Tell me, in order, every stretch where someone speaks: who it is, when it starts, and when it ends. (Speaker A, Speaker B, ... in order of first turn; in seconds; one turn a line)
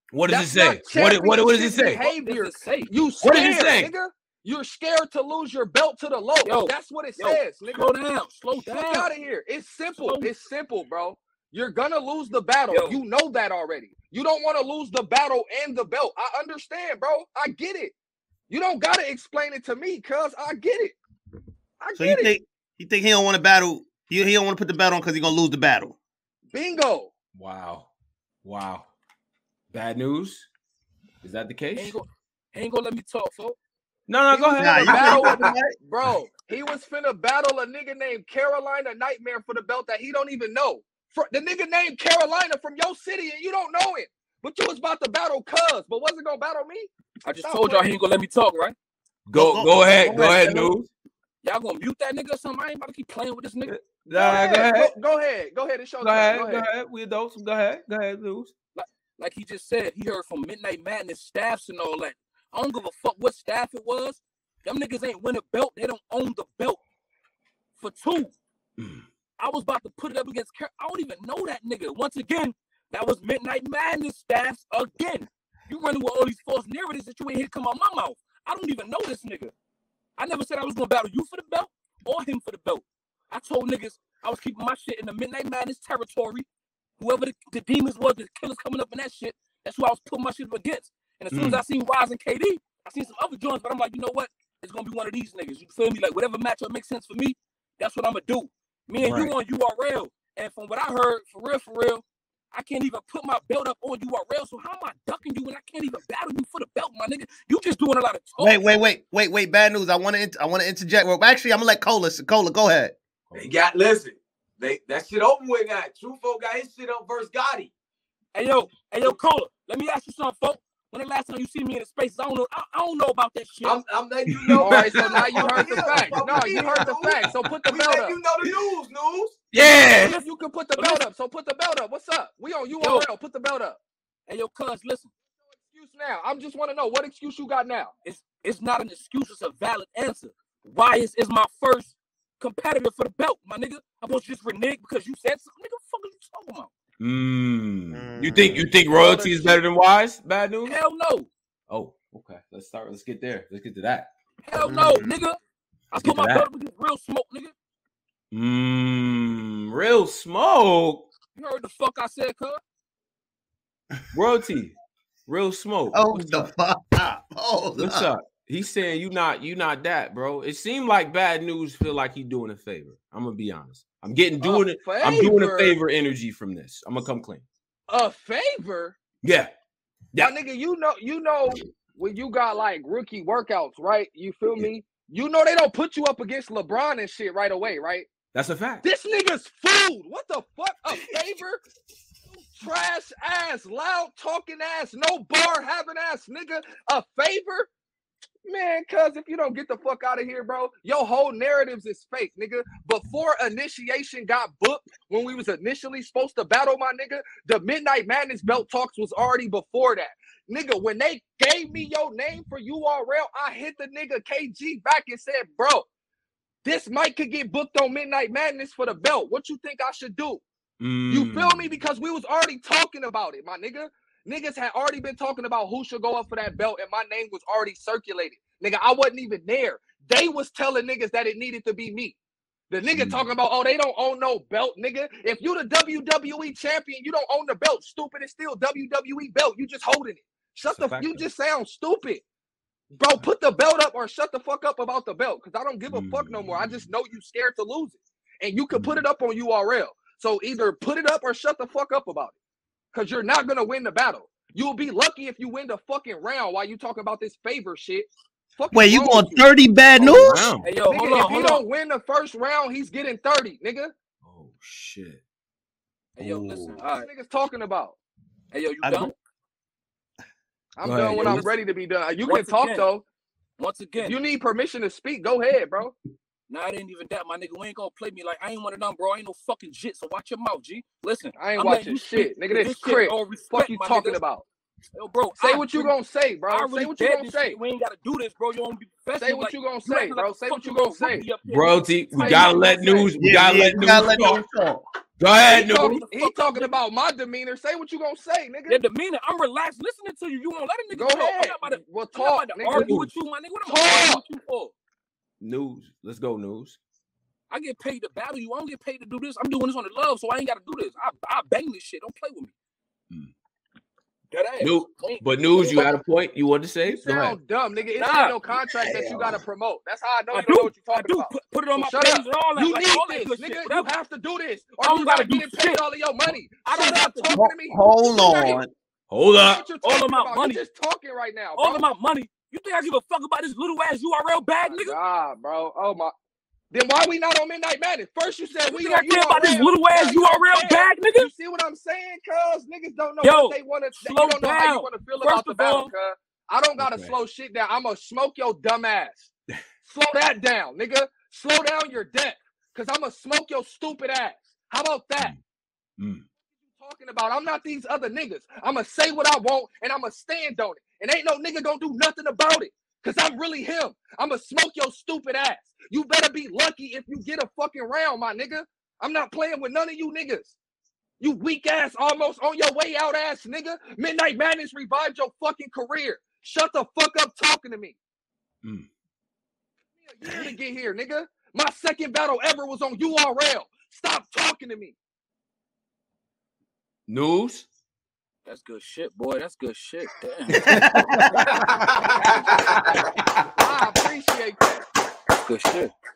Speaker A: 0.1-2.1
Speaker B: 0.3-7.9
Speaker C: 2.0-2.9
Speaker A: 3.2-3.9
Speaker C: 6.4-9.1
Speaker B: 8.7-17.9
Speaker C: 10.0-10.3
Speaker C: 12.7-13.0
Speaker B: 18.5-20.9
Speaker B: 21.8-22.4
Speaker D: 22.0-26.0
Speaker B: 26.5-27.1
Speaker A: 27.4-27.9
Speaker A: 28.4-28.9
Speaker A: 29.7-30.5
Speaker A: 31.2-31.9
Speaker C: 31.8-33.6
Speaker A: 34.1-35.4
Speaker B: 34.3-46.9
Speaker D: 34.6-35.7
Speaker C: 47.2-48.8
Speaker B: 47.4-48.0
Speaker A: 49.3-50.9
Speaker D: 49.3-50.8
Speaker C: 51.4-53.8
Speaker A: 53.7-54.9
Speaker B: 54.1-56.6
Speaker A: 56.0-58.5
Speaker C: 58.8-66.8
Speaker C: 67.8-68.3
Speaker A: 68.8-69.0
Speaker C: 69.4-79.5
Speaker C: 80.2-86.5
Speaker C: 87.0-108.6
Speaker A: 91.3-91.6
Speaker A: 99.0-99.3
Speaker D: 108.4-113.0
Speaker E: 113.3-117.7
Speaker C: 118.3-123.8
Speaker E: 123.6-129.4
Speaker A: 124.3-125.6
Speaker B: 124.6-128.2
Speaker C: 125.4-126.8
Speaker A: 129.5-130.2
Speaker B: 130.0-133.8
Speaker C: 130.0-131.0
Speaker C: 132.8-133.1
Speaker C: 134.3-135.1
Speaker B: 135.6-137.9
Speaker C: 138.0-146.7
Speaker A: 147.0-150.8
Speaker D: 147.9-148.7
Speaker B: 148.9-149.6
Speaker C: 150.7-151.3
Speaker A: 151.7-154.1
Speaker C: 154.4-155.4
Speaker A: 154.6-155.1
Speaker C: 155.9-157.5
Speaker A: 156.0-156.5
Speaker A: 158.3-161.1
Speaker C: 161.3-162.6
Speaker A: 164.1-164.8
Speaker A: 165.3-166.5
Speaker D: 165.9-168.1
Speaker A: 167.8-177.4
Speaker B: 174.4-175.8
Speaker B: 177.9-179.0
Speaker A: 179.2-179.5
Speaker B: 180.2-188.1
Speaker A: 188.3-188.8
Speaker B: 188.8-191.6
Speaker B: 192.3-197.7
Speaker B: 198.4-215.9
Speaker B: 216.6-220.4
Speaker A: 220.8-221.7
Speaker B: 221.1-232.2
Speaker B: 232.7-242.2
Speaker A: 232.9-233.2
Speaker A: 240.7-241.2
Speaker B: 243.0-252.3
Speaker A: 245.9-246.9
Speaker A: 248.7-249.0
Speaker B: 252.9-259.5
Speaker D: 258.7-260.5
Speaker A: 260.0-260.7
Speaker C: 260.6-261.6
Speaker B: 260.9-263.9
Speaker A: 264.2-265.2
Speaker C: 266.2-267.1
Speaker A: 266.2-266.5
Speaker B: 266.9-268.0
Speaker C: 268.5-269.1
Speaker D: 268.8-269.1
Speaker B: 270.8-273.0
Speaker A: 270.8-271.5
Speaker C: 271.2-271.5
Speaker C: 272.2-272.9
Speaker C: 273.6-274.2
Speaker B: 274.0-275.9
Speaker C: 276.5-284.2
Speaker B: 281.4-284.5
Speaker C: 284.9-285.9
Speaker B: 285.4-287.6
Speaker C: 286.5-293.1
Speaker B: 289.2-291.2
Speaker A: 291.5-294.4
Speaker B: 292.2-292.6
Speaker D: 293.2-294.8
Speaker A: 295.2-296.0
Speaker B: 295.4-298.8
Speaker C: 295.8-296.8
Speaker C: 298.7-304.7
Speaker B: 300.9-302.9
Speaker A: 302.7-303.1
Speaker B: 303.7-304.2
Speaker A: 305.4-306.8
Speaker C: 307.5-312.5
Speaker C: 314.3-316.0
Speaker A: 314.6-317.4
Speaker B: 316.9-327.8
Speaker C: 318.0-318.4
Speaker D: 318.8-319.4
Speaker C: 320.3-323.9
Speaker C: 324.8-325.8
Speaker C: 326.6-327.4
Speaker D: 327.3-328.7
Speaker C: 328.0-328.6
Speaker A: 329.1-329.6
Speaker B: 329.3-331.9
Speaker C: 329.8-330.6
Speaker C: 331.6-335.0
Speaker B: 334.7-336.1
Speaker B: 336.7-349.3
Speaker C: 338.7-341.3
Speaker C: 343.2-345.9
Speaker A: 346.8-347.1
Speaker B: 349.9-355.3
Speaker A: 356.0-356.2
Speaker B: 356.7-370.6
Speaker B: 371.2-378.0
Speaker B: 380.0-385.0
Speaker A: 387.1-387.7
Speaker C: 388.5-390.6
Speaker D: 390.6-391.6
Speaker A: 390.7-393.5
Speaker B: 393.6-394.9
Speaker C: 395.4-395.9